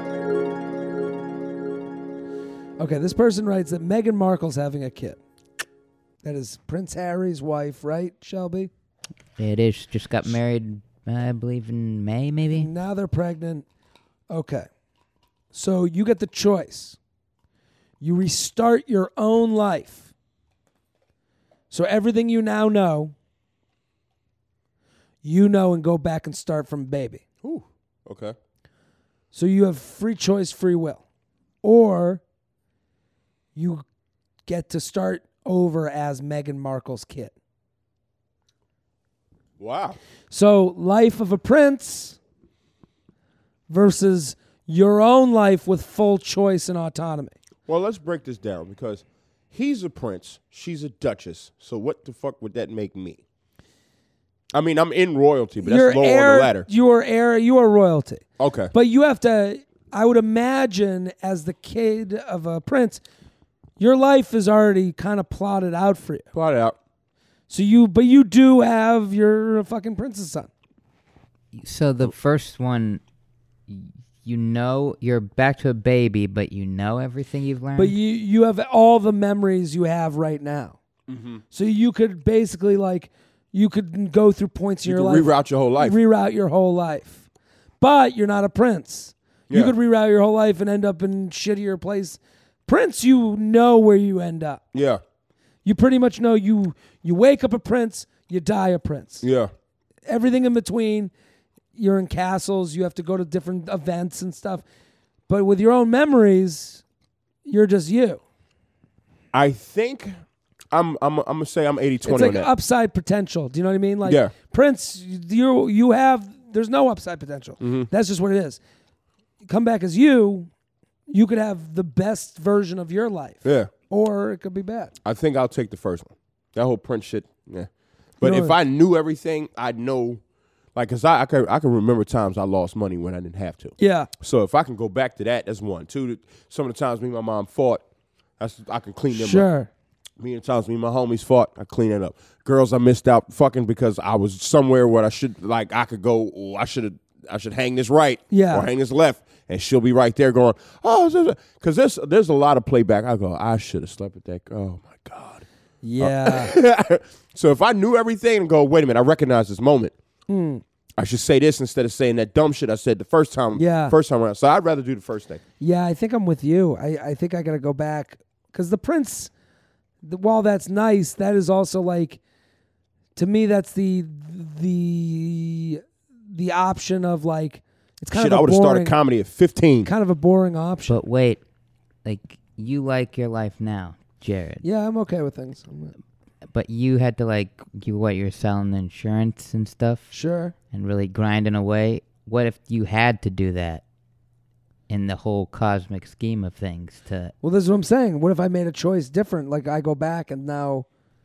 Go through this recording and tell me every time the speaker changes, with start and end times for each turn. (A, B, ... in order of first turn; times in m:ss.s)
0:02.8-0:05.2 A
0:06.2-0:08.7 A
0:09.4-0:12.7 B
0:12.5-0:13.6 A
0:14.3-0:14.7 A
0:15.5-0:17.0 A
0:18.0-0:20.1 A
0:21.7-0:23.1 A
0:25.2-0:27.2 A
0:27.4-0:28.4 C
0:29.3-0:31.0 A
0:31.6-0:32.2 A
0:33.6-0:33.8 A
0:34.5-0:37.3 A
0:39.6-0:40.0 C
0:40.3-0:42.2 A
0:43.7-0:47.4 A
0:47.7-0:53.2 C
0:54.5-0:56.7 C
0:55.6-1:03.0 A
0:58.4-0:58.7 C
1:03.8-1:06.3 A
1:06.3-1:06.8 C
1:07.5-1:10.5 A
1:11.5-1:13.0 B
1:13.7-1:18.0 B
1:17.8-1:20.8 A
1:21.1-1:21.4 C
1:21.5-1:27.2 A
1:24.8-1:26.0 C
1:27.8-1:34.6 A
1:34.7-1:35.0 C
1:35.6-1:39.3 A
1:39.2-1:39.5 C
1:40.1-1:41.1 A
1:41.8-1:44.6 A
1:45.3-1:46.8 A
1:47.4-1:48.2 A
1:49.3-1:50.2 C
1:50.7-1:52.5 C
1:52.0-1:58.6 A
1:54.0-1:54.3 C
1:57.6-1:57.9 C
1:59.4-2:00.5 A
2:01.1-2:05.0 A
2:03.4-2:03.7 C
2:05.0-2:10.2 C
2:08.2-2:08.6 A
2:10.8-2:17.8 C
2:13.8-2:14.1 A
2:18.4-2:19.5 C
2:19.1-2:19.7 A
2:20.2-2:35.5 C
2:28.3-2:28.7 A
2:35.8-2:36.5 A
2:36.0-2:39.9 C
2:40.3-2:40.6 A
2:41.0-2:45.4 C
2:43.6-2:44.0 A
2:45.6-2:49.3 A
2:50.0-2:52.2 A
2:53.2-2:59.0 A
2:58.1-2:59.9 C
2:59.8-3:01.0 A
3:00.9-3:01.4 B
3:02.0-3:04.6 B
3:04.6-3:05.9 A
3:06.5-3:10.1 B
3:10.1-3:10.5 A
3:10.7-3:13.8 B
3:14.9-3:17.3 B
3:17.4-3:20.9 A